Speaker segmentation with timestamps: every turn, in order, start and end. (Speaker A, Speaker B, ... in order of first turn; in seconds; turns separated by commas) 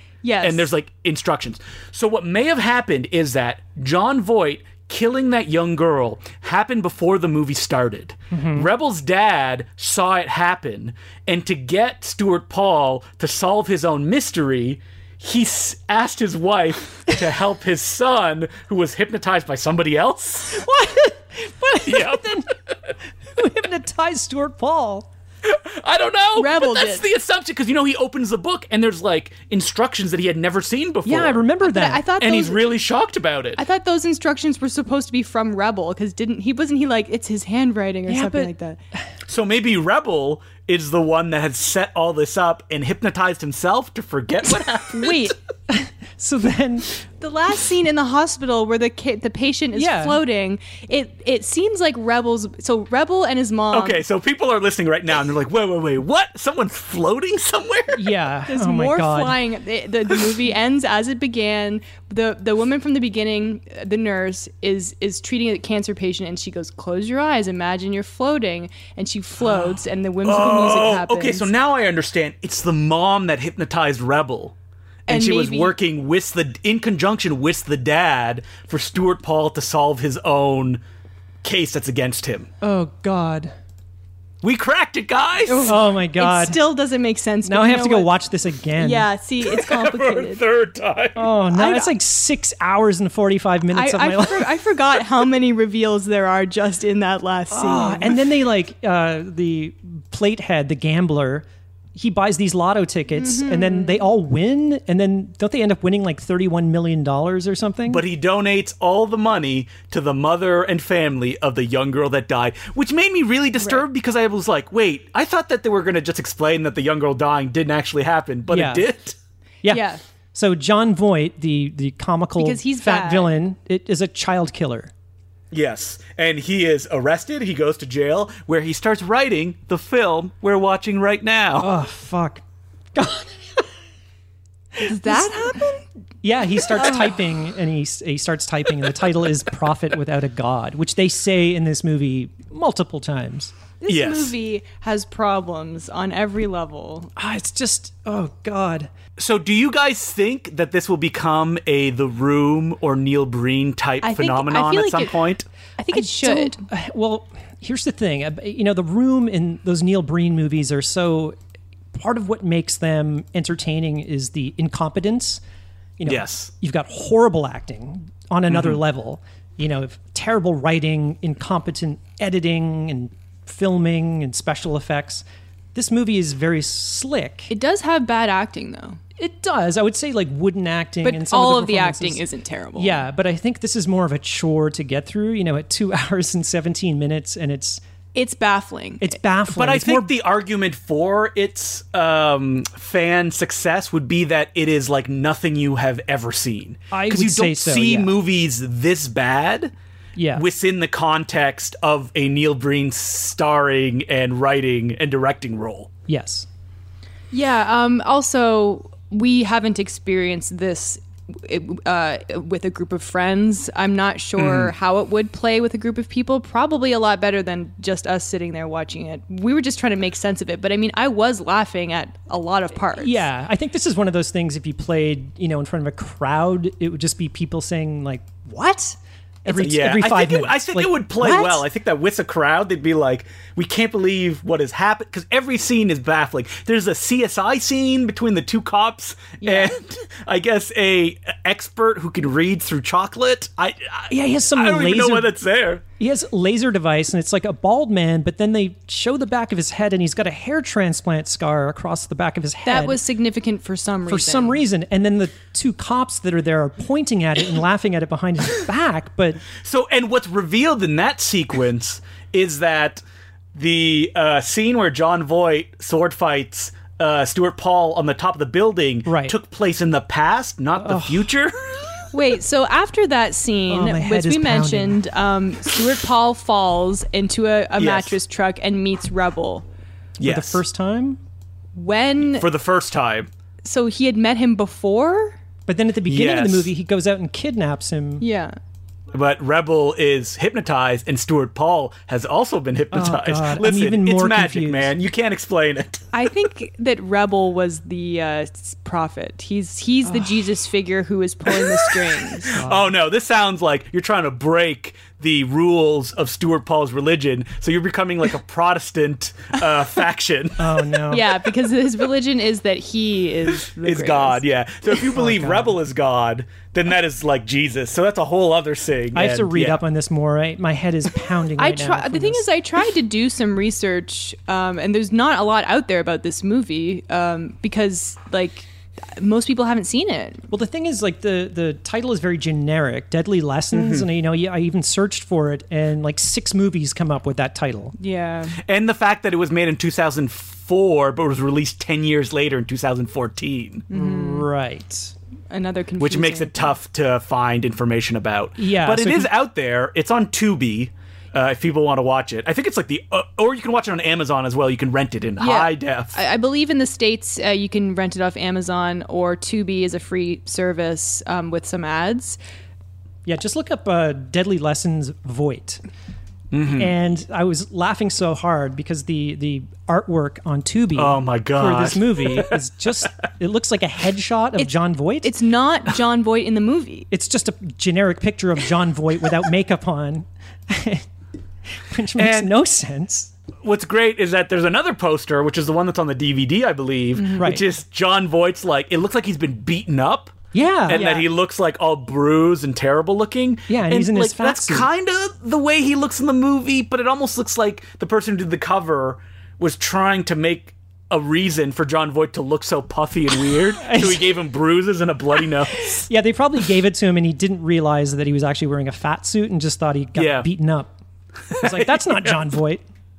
Speaker A: 0.2-0.7, Speaker B: 0.4-20.6, Speaker C: 8.3-8.7, Speaker C: 20.5-22.5, Speaker B: 21.9-22.3, Speaker C: 23.3-25.1, Speaker B: 25.4-31.5, Speaker A: 26.4-27.1, Speaker C: 31.1-32.0, Speaker A: 31.6-32.7, Speaker B: 32.2-33.6, Speaker A: 33.6-38.8, Speaker C: 38.1-38.5, Speaker B: 39.3-45.3, Speaker A: 44.8-45.4, Speaker C: 45.7-47.0, Speaker A: 47.2-54.0, Speaker C: 49.8-50.2, Speaker B: 53.7-58.1, Speaker C: 57.9-59.4, Speaker A: 58.5-71.5, Speaker B: 70.2-74.5, Speaker B: 75.1-80.8, Speaker A: 75.1-75.7, Speaker B: 81.4-82.5, Speaker C: 82.6-83.5, Speaker B: 84.4-85.8, Speaker A: 85.5-88.1, Speaker C: 85.7-86.6, Speaker C: 87.5-89.1, Speaker A: 88.8-90.4, Speaker B: 89.5-91.3, Speaker C: 91.2-94.5, Speaker A: 91.5-91.9, Speaker A: 93.7-98.2, Speaker C: 97.5-108.0, Speaker A: 103.2-104.0, Speaker B: 107.9-119.2, Speaker C: 118.5-118.9, Speaker C: 119.6-124.9, Speaker A: 119.7-120.0, Speaker A: 122.4-123.3, Speaker B: 125.5-131.7, Speaker C: 131.6-133.7, Speaker C: 134.7-135.6, Speaker A: 134.8-135.8, Speaker C: 136.2-143.5, Speaker A: 136.7-137.2, Speaker A: 143.8-147.1, Speaker B: 143.9-144.3, Speaker C: 147.2-148.9, Speaker B: 149.2-155.5, Speaker A: 154.0-155.2, Speaker A: 155.8-156.6, Speaker C: 155.9-161.4, Speaker C: 161.9-165.4, Speaker C: 166.0-177.5, Speaker B: 166.1-166.5, Speaker B: 168.5-168.8, Speaker A: 177.5-179.0, Speaker C: 179.2-182.2, Speaker A: 181.0-183.0, Speaker C: 182.8-187.8, Speaker A: 188.2-189.2, Speaker C: 189.0-190.1, Speaker B: 189.5-199.7, Speaker C: 196.9-198.1, Speaker C: 200.2-200.4, Speaker B: 200.3-205.9, Speaker C: 206.1-206.5, Speaker A: 207.3-223.2, Speaker B: 214.4-214.7, Speaker C: 223.0-231.6, Speaker B: 229.6-245.8, Speaker A: 239.4-239.8, Speaker C: 244.1-245.3, Speaker C: 246.0-253.0, Speaker A: 252.7-254.6, Speaker C: 254.1-259.4, Speaker B: 259.6-263.0, Speaker B: 263.6-271.6, Speaker C: 269.1-269.3, Speaker C: 270.8-271.3, Speaker A: 272.1-279.6, Speaker C: 273.7-275.0, Speaker B: 277.8-278.2, Speaker B: 280.2-280.6, Speaker C: 280.2-281.2, Speaker A: 281.8-282.5, Speaker B: 282.4-283.3, Speaker A: 283.6-285.4, Speaker C: 285.7-288.2, Speaker B: 286.1-286.7, Speaker A: 288.2-288.6, Speaker B: 289.1-296.1, Speaker C: 292.9-294.9, Speaker A: 296.1-302.6, Speaker B: 302.5-310.8, Speaker C: 302.5-302.9, Speaker C: 310.6-311.4, Speaker A: 311.1-314.4, Speaker B: 313.8-319.8, Speaker C: 315.1-315.8, Speaker C: 319.1-322.4, Speaker A: 321.6-330.4, Speaker C: 330.5-337.9, Speaker B: 333.7-334.1, Speaker A: 338.0-338.6, Speaker B: 338.6-343.9, Speaker A: 343.9-344.5, Speaker C: 343.9-345.1, Speaker A: 345.5-346.8, Speaker B: 346.0-356.2, Speaker C: 348.6-349.3, Speaker A: 355.4-362.4, Speaker C: 363.2-365.8, Speaker B: 366.5-366.9, Speaker C: 366.7-375.3, Speaker B: 370.9-372.6, Speaker A: 374.6-377.1, Speaker C: 377.1-381.1, Speaker C: 381.7-383.3, Speaker B: 382.2-382.5, Speaker B: 383.6-406.1, Speaker A: 387.1-387.6, Speaker C: 387.4-387.6, Speaker C: 390.5-391.1, Speaker A: 390.9-391.3, Speaker C: 393.7-394.9, Speaker C: 403.8-404.3, Speaker C: 405.8-410.9, Speaker B: 410.2-410.5, Speaker B: 411.5-412.4, Speaker C: 411.6-412.8